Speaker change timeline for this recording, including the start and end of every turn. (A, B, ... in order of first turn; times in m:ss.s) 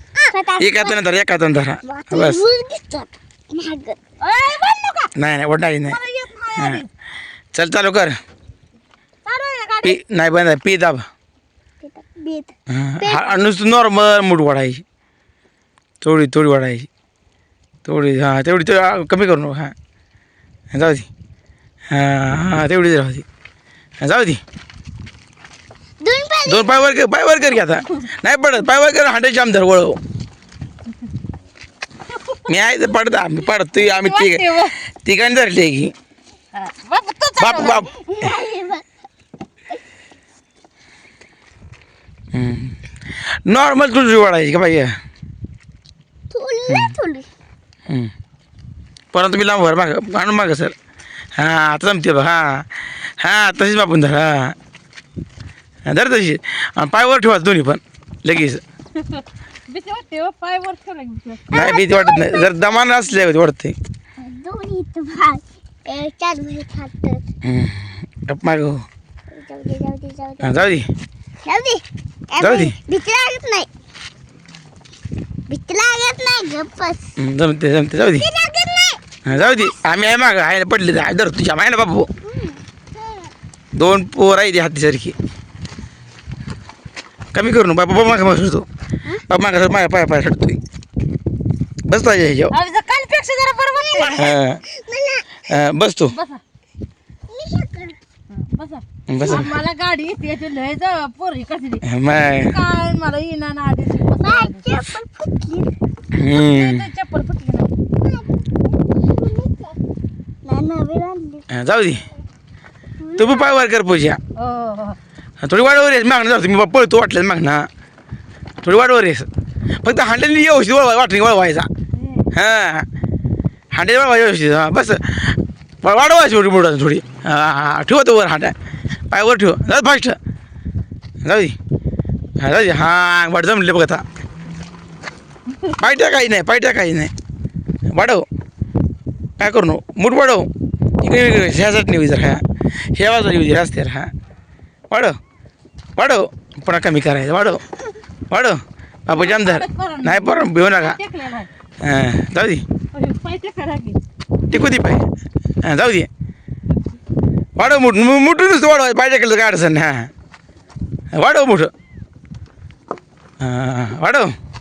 0:00.2-0:01.0 A
0:00.6-0:02.4 B
0:01.8-0:04.0 A
0:04.2-0:05.1 C
0:05.2-0:06.0 B
0:05.9-0:06.9 C
0:06.6-0:06.8 B
0:07.5-0:08.2 B
0:09.2-0:10.0 C
0:09.8-0:11.0 B
0:11.8-0:13.4 A
0:12.7-0:14.8 B
0:16.0-0:16.9 B
0:17.8-0:19.7 B
0:20.7-0:21.1 B
0:21.9-0:23.2 B
0:24.0-0:24.4 B
0:26.0-0:26.9 A
0:26.5-0:30.0 B
0:32.5-0:34.5 B
0:33.9-0:34.7 C
0:35.0-0:35.9 B
0:36.6-0:37.9 C
0:37.4-0:37.9 B
0:38.1-0:38.9 A
0:42.3-0:42.8 B
0:43.5-0:44.9 B
0:46.3-0:47.3 A
0:46.7-0:46.9 B
0:49.1-0:50.8 B
0:51.4-0:52.7 B
0:53.2-0:54.6 B
0:55.9-0:58.6 B
0:59.0-1:01.4 C
1:01.5-1:02.7 A
1:01.5-1:03.8 B
1:04.2-1:07.2 A
1:07.4-1:08.8 B
1:09.3-1:10.6 A
1:10.4-1:10.9 B
1:11.4-1:13.7 A
1:12.4-1:12.8 B
1:15.5-1:17.1 A
1:17.2-1:18.3 B
1:18.2-1:19.7 A
1:19.3-1:22.1 B
1:22.2-1:22.6 A
1:23.8-1:25.2 B
1:27.3-1:28.7 B
1:29.3-1:30.6 B
1:31.9-1:32.5 B
1:32.5-1:34.2 C
1:34.0-1:35.4 A
1:34.2-1:34.6 B
1:35.5-1:36.1 B
1:36.1-1:36.4 C
1:37.3-1:38.0 A
1:38.3-1:41.8 C
1:39.1-1:39.5 B
1:41.8-1:42.6 B
1:42.4-1:44.8 C
1:44.2-1:45.7 A
1:46.2-1:46.9 B
1:46.4-1:47.7 C
1:48.0-1:49.8 A
1:50.4-1:51.4 A
1:51.5-1:52.0 B
1:53.0-1:53.5 A
1:53.2-1:54.2 B
1:54.4-1:55.0 C
1:55.4-1:57.7 B
1:58.6-1:59.3 B
1:59.8-2:01.7 B
2:02.0-2:02.3 C
2:02.3-2:02.9 B
2:03.7-2:08.5 B
2:09.1-2:10.2 B
2:11.2-2:11.6 B
2:12.4-2:14.0 B
2:15.8-2:17.1 B
2:17.9-2:18.2 B
2:19.4-2:20.5 B
2:21.0-2:22.4 B
2:22.9-2:24.1 B
2:24.9-2:25.2 B
2:26.0-2:27.6 B
2:28.3-2:31.0 B
2:29.1-2:31.5 C
2:31.8-2:32.6 B
2:32.9-2:34.0 C
2:34.5-2:35.1 B
2:35.6-2:36.1 B
2:37.6-2:40.1 B
2:41.2-2:41.7 B
2:43.4-2:44.3 B